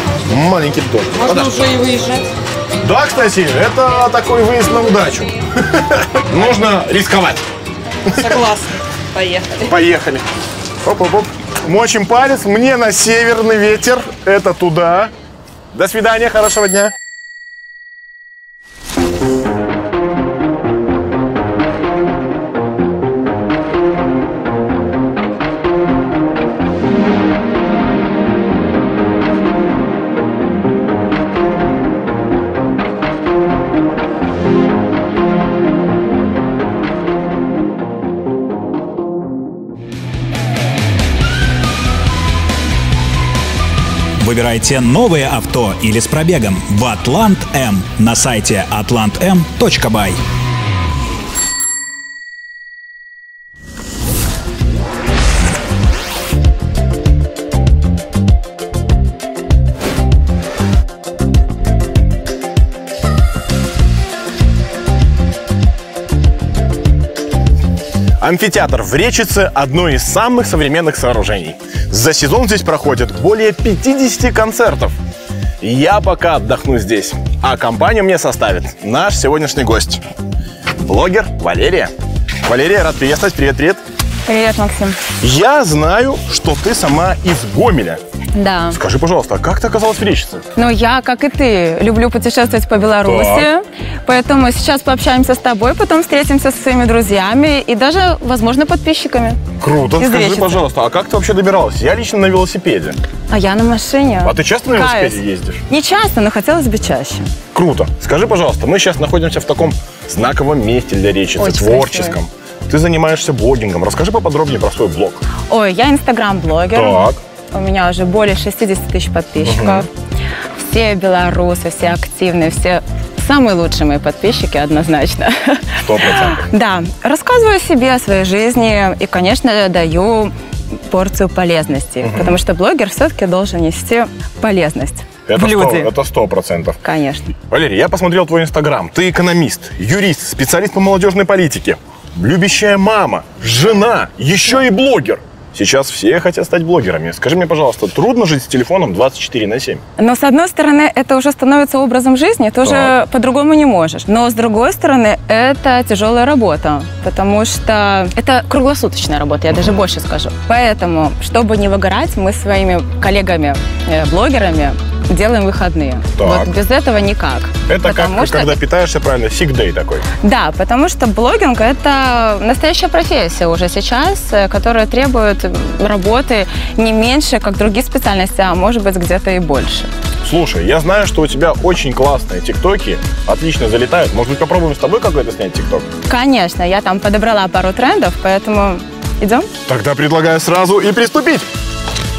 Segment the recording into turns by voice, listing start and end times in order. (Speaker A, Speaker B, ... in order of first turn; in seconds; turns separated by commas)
Speaker A: 0.3-1.5, Speaker B: 1.1-2.3, Speaker A: 2.8-7.5, Speaker A: 8.1-8.4, Speaker B: 8.1-9.8, Speaker A: 9.7-10.2, Speaker A: 10.8-15.1, Speaker A: 15.7-16.9, Speaker C: 44.2-50.2, Speaker A: 68.2-75.0, Speaker A: 75.6-80.0, Speaker A: 80.8-81.9, Speaker A: 82.4-83.8, Speaker D: 84.3-85.0, Speaker A: 85.2-88.0, Speaker D: 88.3-88.8, Speaker A: 88.7-90.4, Speaker D: 90.6-99.4, Speaker A: 93.0-93.5, Speaker A: 99.6-103.0, Speaker D: 100.0-100.6, Speaker D: 103.3-107.2, Speaker A: 104.2-105.6, Speaker A: 107.5-115.2, Speaker D: 111.4-112.2, Speaker D: 115.5-119.9, Speaker A: 116.7-117.2, Speaker A: 119.4-119.9, Speaker D: 120.6-135.9, Speaker A: 125.8-126.5, Speaker A: 132.0-132.4, Speaker A: 135.3-136.8, Speaker D: 136.8-137.3, Speaker A: 137.4-149.8, Speaker D: 150.0-168.6, Speaker A: 152.6-152.9, Speaker A: 166.2-166.5, Speaker A: 167.7-170.1, Speaker D: 170.2-179.9, Speaker A: 180.2-185.9, Speaker D: 186.1-189.5, Speaker A: 189.7-191.5